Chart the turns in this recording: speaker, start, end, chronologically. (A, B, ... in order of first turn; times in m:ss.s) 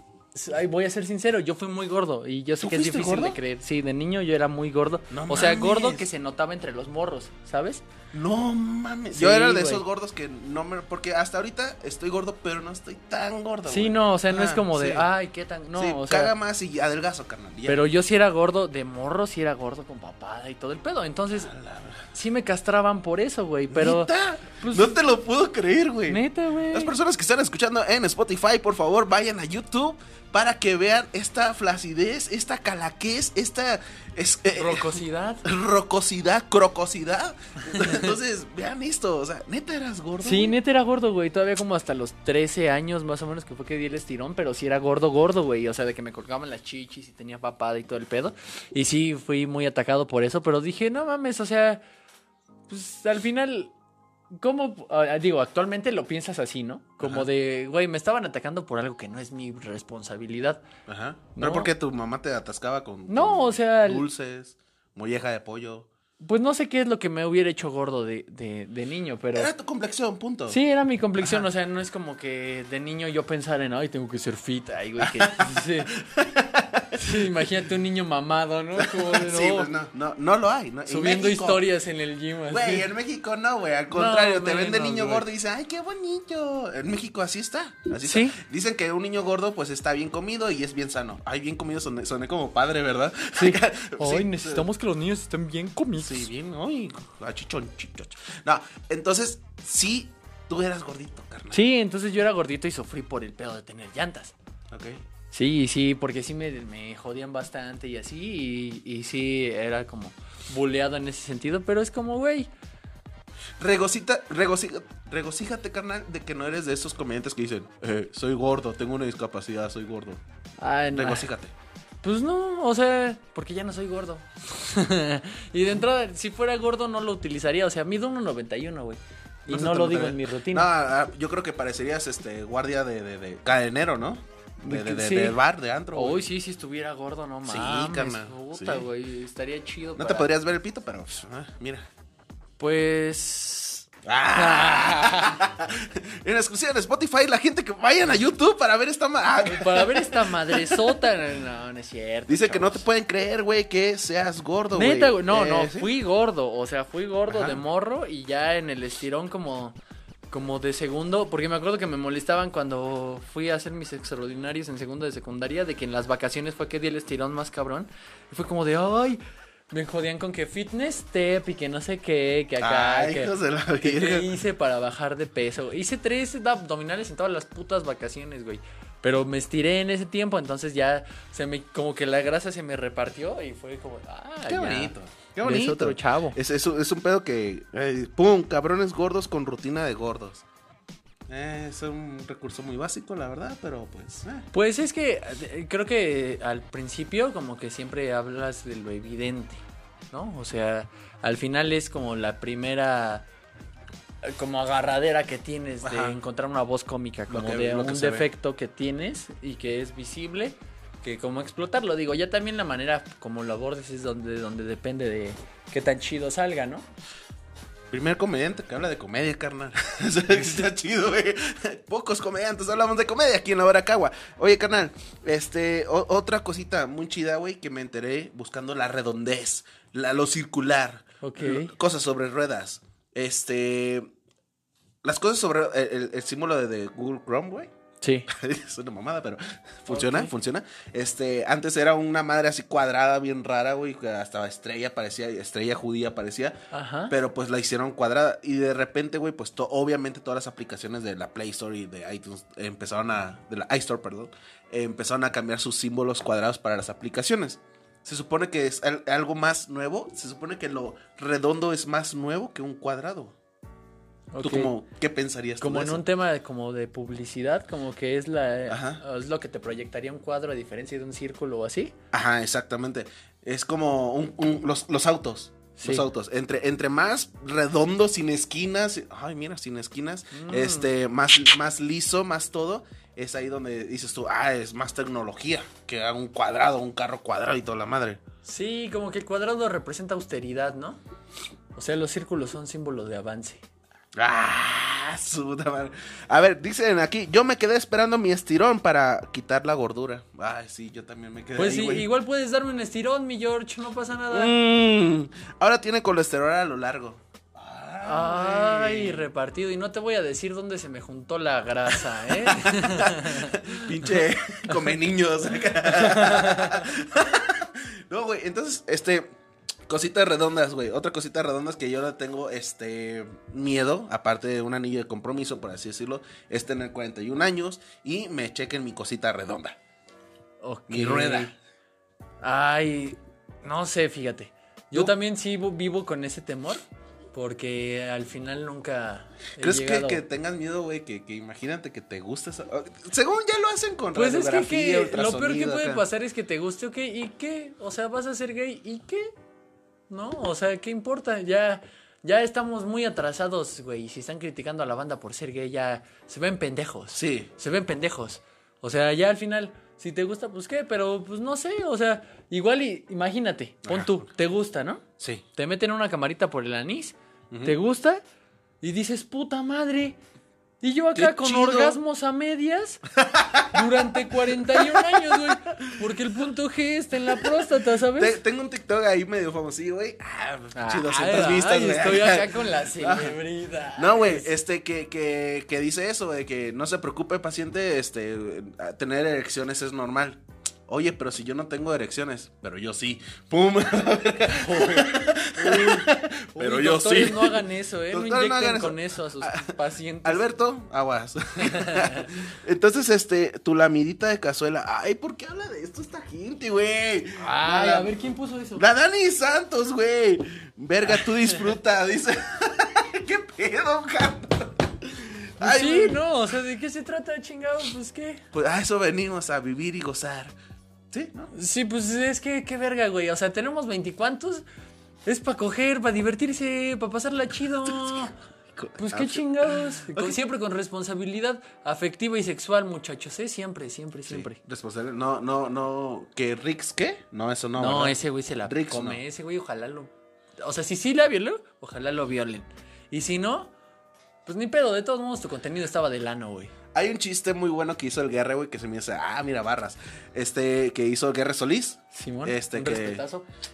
0:00.3-0:07.8 A
0:02.6-0:03.4 B
0:05.1-0:06.1 B
0:08.1-0:15.1 B
0:09.1-0:09.8 A
0:13.7-0:16.3 A
0:15.7-0:17.8 B
0:17.7-0:21.5 A
0:21.3-0:22.1 B
0:22.1-0:25.0 A
0:23.7-0:40.6 B
0:26.1-0:26.9 A
0:34.5-0:35.4 A
0:37.8-0:38.1 A
0:40.2-0:51.8 A
0:52.7-0:53.7 A
0:54.3-1:00.6 A
0:57.0-0:57.3 B
1:00.9-1:05.9 B
1:01.4-1:01.7 A
1:03.1-1:04.1 A
1:06.2-1:09.5 A
1:09.4-1:10.6 B
1:10.5-1:16.0 A
1:15.0-1:17.0 B
1:16.9-1:19.7 A
1:18.8-1:21.7 B
1:20.9-1:22.9 A
1:22.5-1:34.7 B
1:23.9-1:25.3 A
1:28.0-1:28.4 A
1:33.4-1:36.3 A
1:36.0-1:41.6 B
1:41.5-1:44.4 A
1:44.7-1:45.0 B
1:45.3-1:52.5 A
1:53.6-2:00.2 B
2:00.6-2:01.3 A
2:00.9-2:01.5 B
2:02.0-2:10.7 A
2:09.5-2:16.3 B
2:14.6-2:15.4 A
2:15.9-2:20.3 A
2:17.4-2:18.9 B
2:20.0-2:21.9 B
2:22.6-2:25.4 A
2:24.0-2:31.0 B
2:29.4-2:32.9 A
2:32.3-2:35.9 B
2:34.7-2:39.8 A
2:37.3-2:37.6 B
2:40.3-3:06.4 A
2:52.6-2:54.3 B
3:04.5-3:10.4 B
3:11.3-3:14.5 B
3:14.5-3:23.3 A
3:24.2-3:36.9 A
3:25.8-3:26.2 B
3:27.3-3:28.3 B
3:37.9-3:54.1 B
3:51.2-3:51.7 A
3:55.0-3:57.7 B
3:58.0-3:58.3 A
3:58.3-4:06.6 B
3:59.9-4:00.3 A
4:06.7-4:07.1 A
4:07.1-4:23.4 B
4:24.3-4:24.7 A
4:24.4-4:26.0 B
4:25.6-4:31.9 A
4:28.7-4:29.0 B
4:32.1-4:48.2 B
4:35.8-4:36.1 A
4:40.3-4:40.9 A
4:48.4-4:51.0 A
4:51.8-4:53.6 A
4:54.2-5:02.1 B
5:01.6-5:04.5 A
5:04.3-5:09.3 B
5:08.0-5:14.2 A
5:11.9-5:19.3 B
5:15.8-5:16.9 A
5:19.9-5:29.8 B
5:30.6-5:31.6 A
5:30.9-5:31.5 B
5:32.4-5:40.2 A
5:39.6-5:46.0 B
5:44.1-5:49.3 A
5:50.1-6:08.2 A
5:57.1-5:57.5 B
6:03.8-6:04.2 B
6:07.5-6:07.8 B
6:08.8-6:10.2 A
6:10.8-6:13.0 A
6:11.2-6:12.0 B
6:13.2-6:16.0 B
6:13.7-6:18.4 A
6:17.3-6:23.4 B
6:20.7-6:24.5 A
6:24.0-6:48.1 B
6:34.5-6:40.5 A
6:41.6-6:42.3 A
6:47.4-6:48.8 A
6:48.8-6:56.2 B
6:51.1-6:51.7 A
6:55.6-6:58.4 A
6:58.5-7:00.5 B
7:01.1-7:01.5 B
7:01.5-7:04.6 A
7:05.3-7:08.3 A
7:07.9-7:10.4 B
7:09.0-7:14.6 A
7:14.3-7:19.2 B
7:17.8-7:23.7 A
7:24.5-7:26.7 A
7:26.9-7:33.2 B
7:32.1-7:33.5 A